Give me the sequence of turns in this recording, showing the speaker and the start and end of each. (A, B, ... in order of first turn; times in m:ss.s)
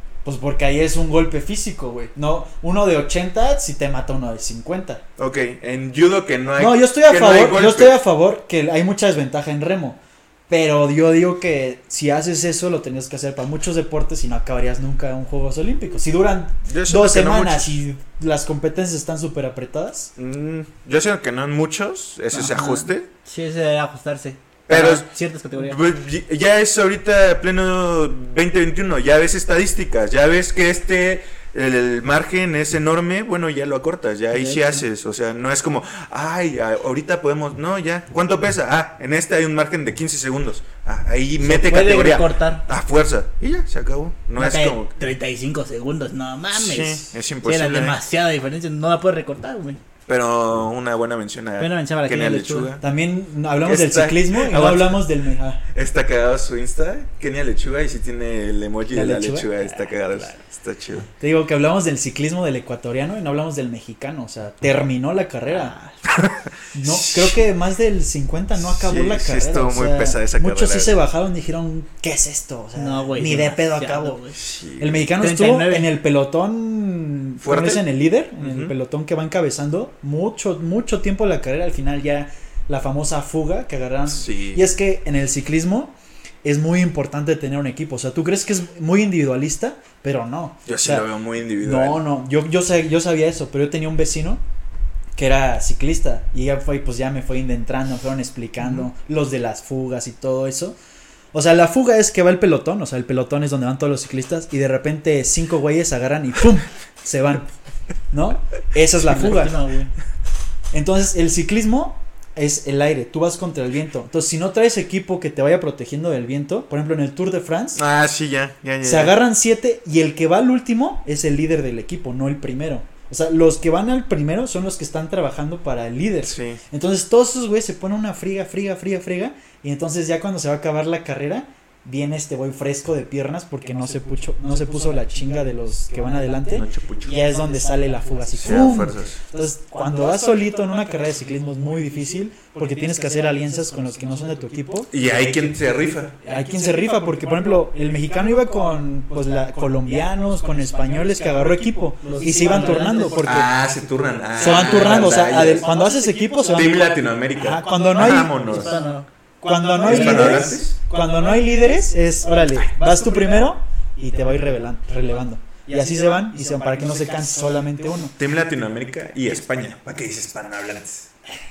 0:00.2-0:05.0 A
0:05.2-0:08.0 B
0:06.6-0:20.1 A
0:16.7-0:17.8 B
0:20.2-0:23.1 B
0:22.3-0:25.8 C
0:24.7-0:44.9 B
0:34.3-0:34.8 C
0:41.4-0:42.6 C
0:44.4-0:49.8 C
0:46.5-0:48.0 B
0:50.1-0:52.8 B
0:51.6-0:52.7 C
0:52.8-0:55.6 A
0:53.6-0:55.0 B
0:55.7-1:01.1 B
0:58.9-1:00.4 A
1:01.2-1:05.7 A
1:05.5-1:05.9 C
1:06.1-1:07.4 B
1:06.7-1:14.2 A
1:08.6-1:11.0 B
1:12.8-1:14.4 C
1:14.4-1:15.1 B
1:14.8-1:34.4 A
1:15.2-1:15.9 C
1:17.4-1:17.8 B
1:18.4-1:18.7 B
1:24.1-1:24.6 B
1:30.6-1:32.0 B
1:35.2-1:40.8 A
1:41.3-1:47.5 A
1:48.1-1:49.6 A
1:49.0-1:49.9 C
1:50.7-1:57.8 A
1:57.7-1:59.2 B
1:58.8-2:24.9 A
2:06.2-2:06.6 B
2:16.5-2:17.2 B
2:17.4-2:18.5 C
2:18.4-2:19.2 B
2:24.9-2:26.1 B
2:26.2-2:33.5 A
2:32.0-2:33.5 C
2:33.2-2:35.7 B
2:34.4-2:38.7 A
2:34.4-2:37.1 C
2:36.5-2:38.7 B
2:38.0-2:39.1 C
2:39.4-2:48.2 A
2:39.8-2:40.6 C
2:39.8-2:40.8 B
2:48.2-2:51.1 B